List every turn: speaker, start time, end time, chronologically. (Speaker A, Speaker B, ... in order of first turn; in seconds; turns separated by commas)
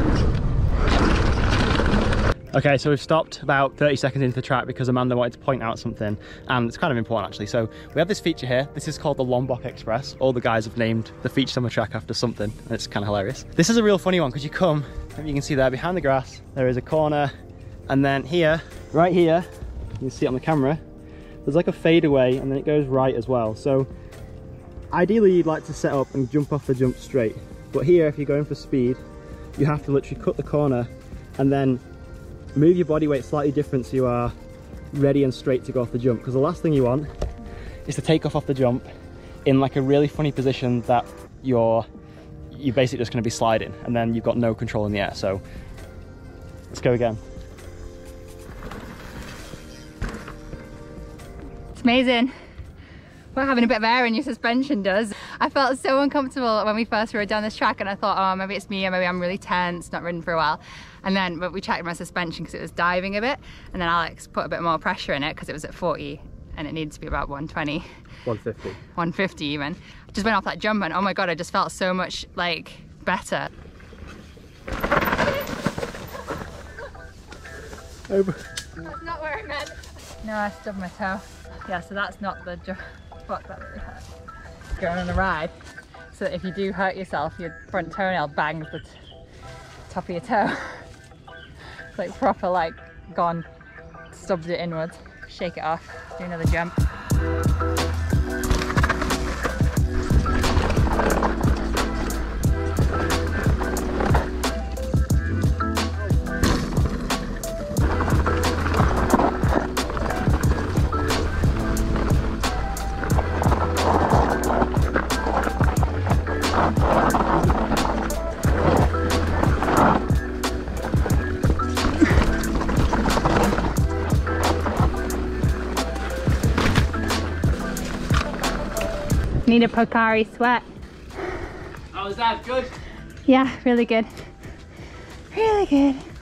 Speaker A: 2.5-17.3, Speaker A: 17.9-19.5, Speaker A: 20.0-20.8, Speaker A: 21.5-23.9, Speaker A: 24.9-29.0, Speaker A: 29.6-31.8, Speaker A: 32.5-34.3, Speaker A: 34.9-37.1, Speaker A: 37.9-38.9, Speaker A: 39.5-41.9, Speaker A: 42.5-45.4, Speaker A: 46.7-47.2, Speaker B: 51.8-52.3, Speaker B: 53.4-67.9, Speaker A: 68.2-68.8, Speaker B: 68.9-73.5, Speaker A: 78.1-78.4, Speaker B: 78.8-84.0, Speaker B: 84.8-85.5, Speaker B: 86.1-89.0, Speaker B: 89.9-90.9, Speaker B: 92.0-93.5, Speaker B: 94.1-96.8, Speaker B: 129.5-130.7, Speaker A: 132.0-132.7, Speaker B: 133.3-134.3, Speaker B: 135.3-136.1